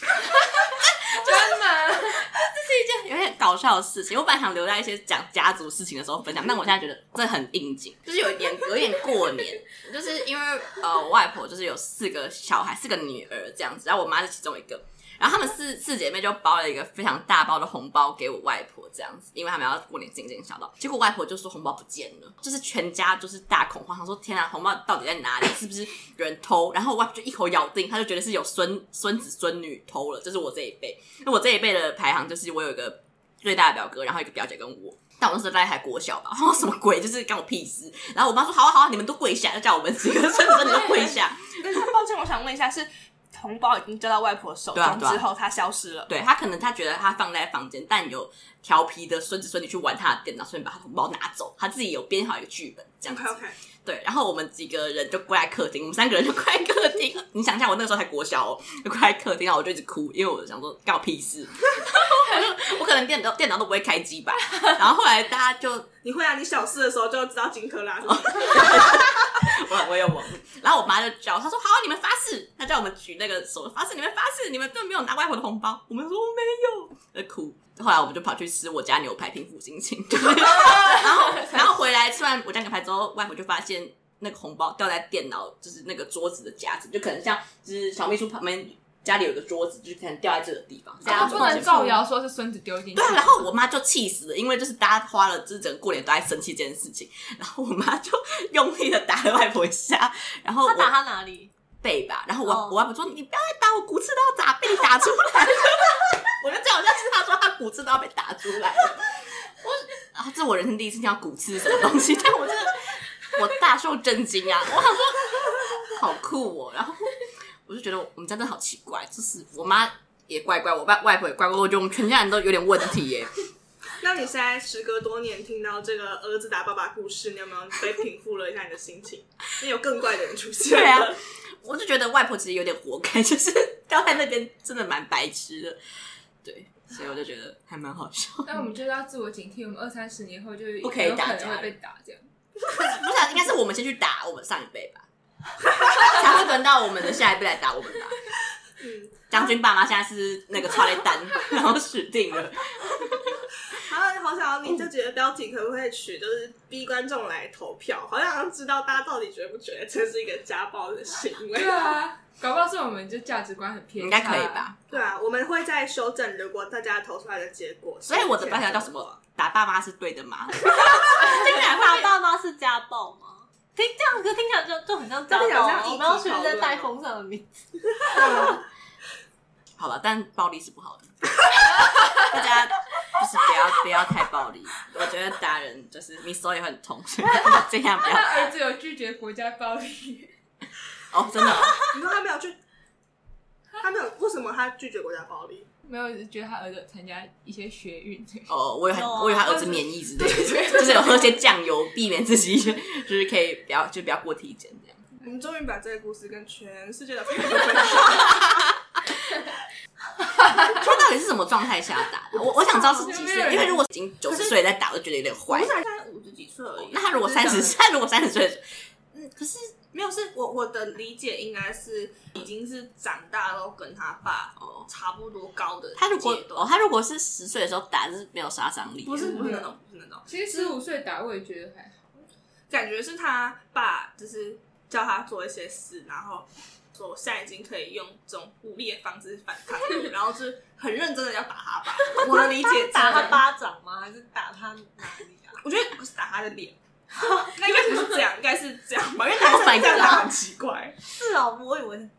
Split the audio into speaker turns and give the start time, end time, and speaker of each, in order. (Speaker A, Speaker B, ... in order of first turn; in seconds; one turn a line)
Speaker A: 0.7-1.5
Speaker B: 1.0-2.3
Speaker A: 2.2-41.8
Speaker C: 40.6-46.1
Speaker A: 44.7-45.2
Speaker A: 46.1-65.9
Speaker C: 53.1-53.6
Speaker C: 66.0-69.0
Speaker A: 68.0-92.0
Speaker D: 91.0-91.8
Speaker B: 91.0-93.4
Speaker A: 92.9-100.9
Speaker D: 100.7-101.5
Speaker A: 101.8-123.4
Speaker D: 102.4-102.8
Speaker C: 124.0-131.2
Speaker A: 130.7-135.8
Speaker A: 136.4-138.5
Speaker B: 138.4-142.2
Speaker A: 140.8-141.7
Speaker A: 142.7-145.1
Speaker A: 145.8-148.2
Speaker C: 148.8-149.5
Speaker A: 149.3-153.4
Speaker C: 153.8-161.9
Speaker B: 161.5-164.7
Speaker A: 164.0-164.8
Speaker C: 164.9-169.2
Speaker A: 168.1-172.1
Speaker D: 170.8-177.5
Speaker C: 175.3-176.9
Speaker C: 178.0-178.6
Speaker D: 178.0-178.6
Speaker A: 179.8-181.1
Speaker A: 182.1-188.5
Speaker B: 188.0-190.3
Speaker A: 191.1-191.8
Speaker C: 191.9-192.6
Speaker C: 193.8-195.7
Speaker B: 195.8-198.5
Speaker A: 198.5-205.0
Speaker D: 198.9-199.8
Speaker C: 205.2-208.7
Speaker A: 210.5-215.7
Speaker C: 212.3-213.8
Speaker B: 212.9-213.8
Speaker C: 215.5-217.7
Speaker A: 216.8-218.6
Speaker A: 219.1-219.7
Speaker C: 219.9-226.8
Speaker A: 224.6-224.9
Speaker A: 226.0-229.5
Speaker C: 229.0-230.8
Speaker B: 230.3-232.2
Speaker C: 232.7-243.5
Speaker D: 242.3-245.6
Speaker C: 245.6-246.8
Speaker D: 247.2-248.2
Speaker C: 247.4-251.0
Speaker A: 249.4-250.0
Speaker D: 249.8-250.2
Speaker D: 251.0-252.1